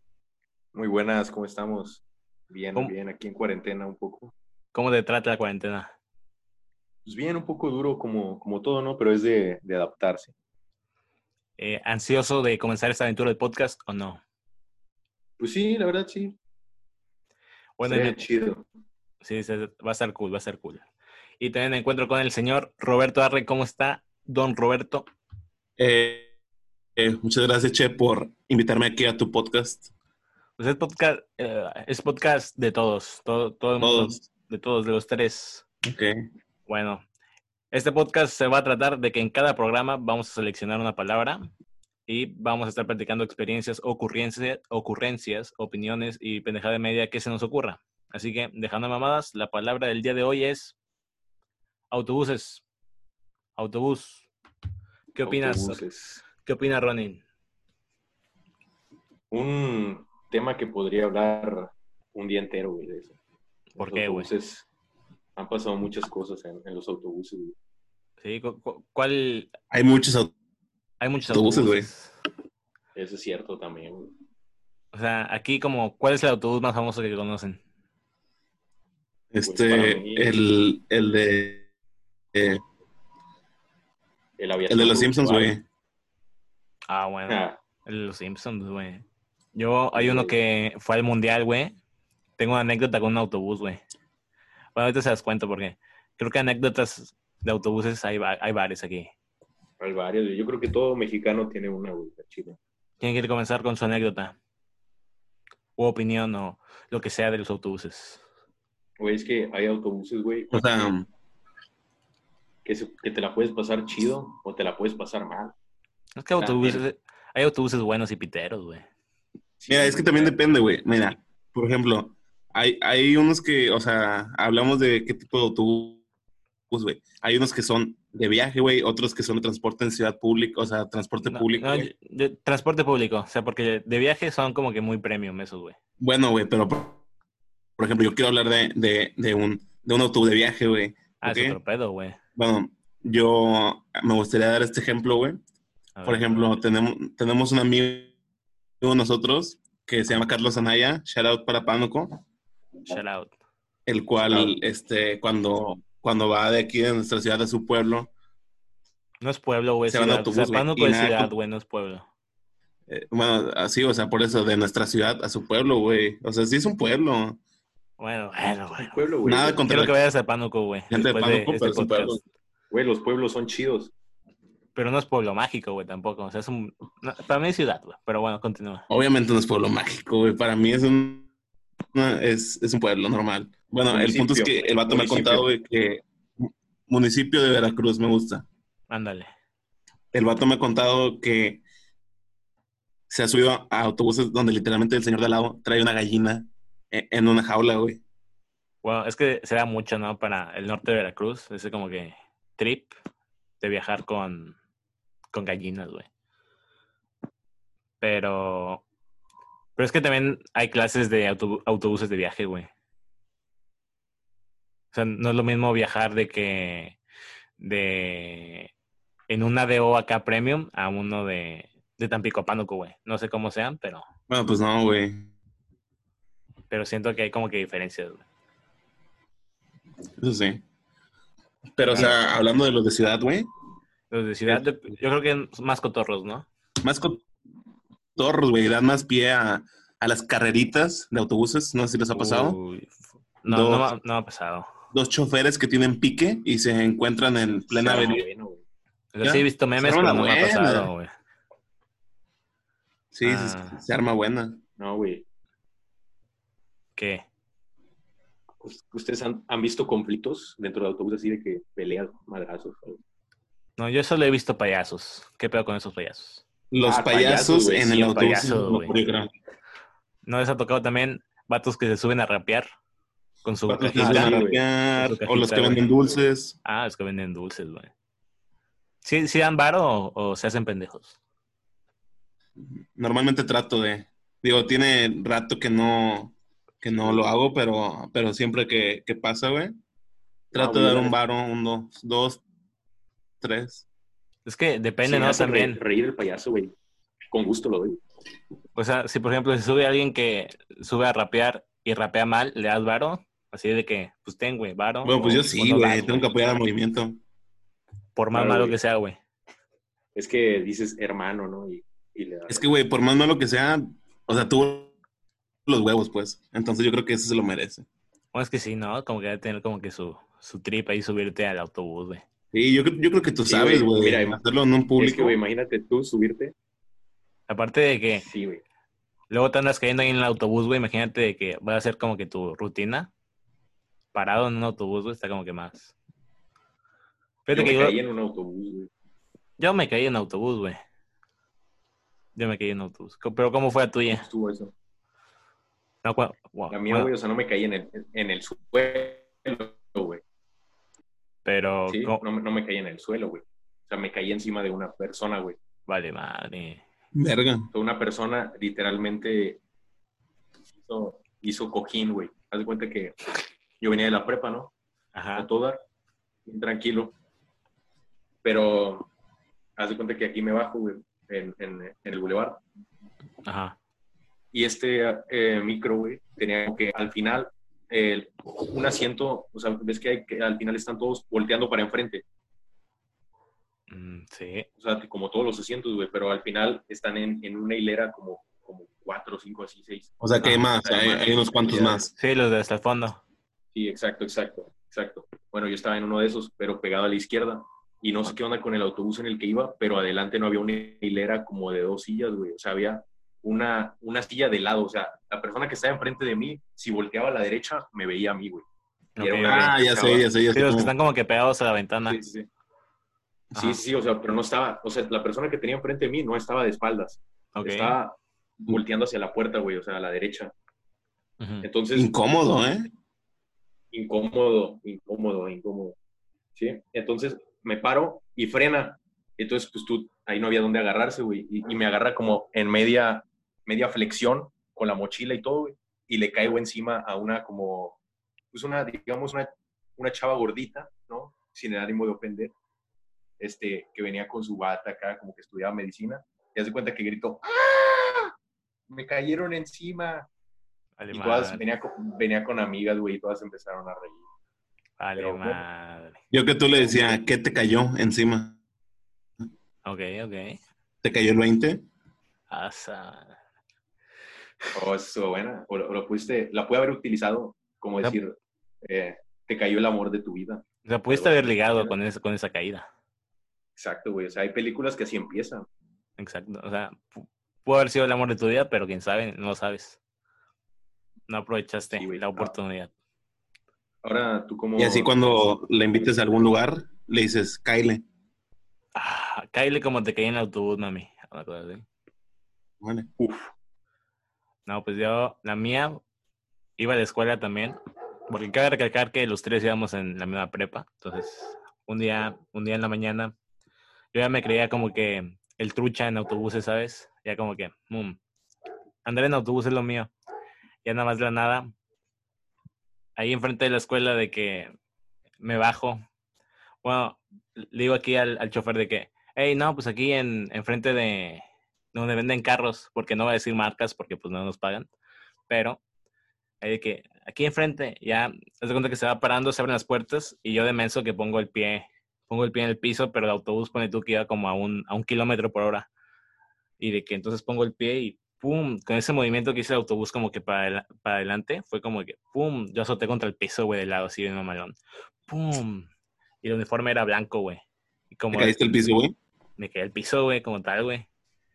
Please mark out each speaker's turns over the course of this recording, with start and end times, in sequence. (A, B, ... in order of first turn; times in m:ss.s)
0:00.7-0:04.3 A
0:04.7-0:05.9 B
0:07.0-0:10.3 A
0:11.6-0:14.2 B
0:15.4-0:16.4 A
0:17.8-0:18.3 B
0:17.8-0:18.6 A
0:19.2-0:20.9 B
0:21.4-0:25.0 B
0:25.8-0:26.3 C
0:27.0-0:29.9 C
0:30.6-0:35.6 B
0:33.8-0:34.2 C
0:35.8-0:36.2 C
0:36.7-0:37.0 B
0:37.7-0:41.5 B
0:42.1-0:50.7 B
0:51.9-0:52.6 B
0:53.6-0:54.3 B
0:55.1-0:57.2 B
0:55.2-0:56.2 A
0:59.3-1:03.2 A
1:03.8-1:04.3 B
1:03.8-1:04.6 A
1:05.4-1:07.5 A
1:08.2-1:09.5 B
1:09.7-1:10.3 C
1:11.0-1:12.1 B
1:11.3-1:11.9 C
1:12.9-1:14.1 A
1:14.9-1:17.6 B
1:19.3-1:21.7 C
1:19.4-1:20.3 A
1:22.3-1:22.6 C
1:24.4-1:25.5 A
1:24.7-1:25.6 C
1:26.9-1:29.0 B
1:27.3-1:27.6 A
1:29.5-1:31.8 B
1:29.9-1:30.4 A
1:32.4-1:33.8 B
1:34.8-1:39.1 B
1:39.8-1:42.6 A
1:43.0-1:44.4 B
1:45.8-1:48.2 B
1:49.0-1:50.9 A
1:50.5-1:51.1 C
1:52.6-1:55.5 A
1:56.2-1:58.8 B
1:56.4-1:56.8 A
1:59.6-2:00.4 A
1:59.7-2:06.0 C
2:06.7-2:11.9 C
2:11.2-2:15.8 B
2:16.0-2:17.0 C
2:17.8-2:21.6 C
2:21.2-2:22.2 B
2:22.4-2:25.4 C
2:26.0-2:26.4 B
2:26.0-2:28.1 C
2:28.8-2:32.2 C
2:32.9-2:33.3 B
2:33.9-2:38.1 C
2:34.3-2:34.6 A
2:39.2-2:42.1 B
2:39.9-2:41.3 C
2:42.9-2:47.4 C
2:48.0-2:49.1 B
2:48.8-2:49.7 A
2:49.2-2:50.0 C
2:49.6-2:52.2 B
2:50.9-2:52.2 C
2:52.7-2:53.9 A
2:54.8-2:58.9 B
2:58.9-3:01.3 C
3:01.9-3:08.5 C
3:03.9-3:05.5 A
3:08.9-3:09.3 B
3:10.1-3:11.6 C
3:13.1-3:18.0 C
3:18.8-3:22.9 B
3:23.6-3:24.6 B
3:25.3-3:26.1 B
3:28.0-3:28.8 B
3:29.8-3:32.7 B
3:34.9-3:37.0 B
3:37.6-3:38.7 B
3:39.3-3:44.1 B
3:44.3-3:45.3 C
3:46.7-3:48.2 B
3:50.2-3:50.6 C
3:51.8-3:53.5 C
3:51.9-3:52.2 B
3:54.1-3:56.5 B
3:56.8-3:57.2 C
3:58.2-4:02.6 C
4:02.1-4:04.7 B
4:03.5-4:03.9 C
4:04.9-4:08.2 C
4:07.7-4:08.6 A
4:09.1-4:11.1 B
4:09.2-4:10.9 C
4:13.1-4:14.6 C
4:13.2-4:13.8 B
4:14.8-4:15.2 A
4:17.0-4:17.2 B
4:18.6-4:23.0 A
4:23.8-4:26.4 B
4:26.7-4:29.3 C
4:26.8-4:28.3 A
4:28.1-4:29.0 B
4:30.2-4:32.7 B
4:33.4-4:34.4 B
4:33.7-4:36.6 C
4:33.9-4:34.6 A
4:35.0-4:35.8 B
4:36.6-4:37.9 B
4:39.0-4:41.2 B
4:42.6-4:49.8 C
4:50.5-4:51.2 A
4:50.5-4:52.4 C
4:53.4-4:53.8 C
4:54.4-4:55.8 B
4:55.0-4:56.7 A
4:57.3-4:58.0 A
4:58.8-5:06.3 B
5:05.0-5:07.2 C
5:08.2-5:09.2 B
5:08.3-5:08.8 A
5:10.1-5:12.6 A
5:12.5-5:14.9 C
5:15.6-5:17.8 C
5:18.3-5:22.2 B
5:22.5-5:25.4 C
5:23.4-5:24.4 A
5:25.0-5:26.5 A
5:27.5-5:28.2 B
5:28.2-5:28.6 A
5:29.3-5:33.1 B
5:34.1-5:35.9 B
5:37.4-5:38.0 B
5:37.5-5:38.9 A
5:39.6-5:40.8 B
5:42.4-5:44.2 B
5:44.1-5:44.7 A
5:46.0-5:47.1 B
5:46.7-5:50.2 A
5:51.4-5:52.2 B
5:51.9-5:55.6 A
5:55.9-5:56.8 B
5:57.1-5:57.7 C
5:57.7-5:59.6 A
6:00.8-6:03.2 A
6:03.8-6:04.7 A
6:05.1-6:05.5 B
6:05.4-6:05.8 A
6:06.4-6:07.1 A
6:08.4-6:09.1 A
6:09.8-6:12.6 A
6:13.4-6:13.8 B
6:14.5-6:22.2 A
6:23.9-6:24.7 B
6:24.8-6:30.1 A
6:30.2-6:32.1 C
6:30.4-6:31.1 B
6:31.0-6:32.1 A
6:32.2-6:33.2 B
6:33.7-6:48.6 A
6:49.2-6:49.7 B
6:49.2-6:50.3 A
6:49.4-6:50.9 C
6:50.5-6:52.2 B
6:52.1-6:52.5 A
6:53.5-7:00.5 A
6:53.6-6:53.8 B
6:57.5-6:58.0 B
7:01.4-7:01.7 B
7:01.6-7:02.1 A
7:01.9-7:02.9 C
7:03.9-7:06.0 A
7:06.6-7:18.0 A
7:18.5-7:22.5 A
7:23.4-7:28.3 A
7:28.9-7:30.3 A
7:31.0-7:31.6 B
7:31.1-7:34.2 A
7:35.0-7:36.2 B
7:35.2-7:35.6 A
7:36.3-7:38.6 C
7:39.8-7:40.6 B
7:41.0-7:41.8 C
7:42.5-7:43.4 B
7:44.8-7:52.0 A
7:50.8-7:52.9 B
7:53.8-7:55.6 A
7:56.2-8:00.0 B
8:01.3-8:02.9 B
8:01.9-8:02.5 A
8:04.0-8:05.6 A
8:04.8-8:08.0 C
8:08.9-8:11.8 B
8:12.8-8:13.1 C
8:13.2-8:13.5 A
8:14.6-8:16.0 B
8:16.8-8:17.8 B
8:18.3-8:23.3 B
8:24.1-8:28.2 B
8:29.0-8:30.1 B
8:30.8-8:31.7 B
8:33.2-8:34.7 B
8:35.4-8:36.0 B
8:36.8-8:44.9 B
8:45.5-8:45.8 B
8:46.6-8:55.9 B
8:56.8-9:04.8 B
9:05.3-9:05.9 B
9:06.4-9:08.6 B
9:08.3-9:09.1 C
9:09.6-9:11.1 B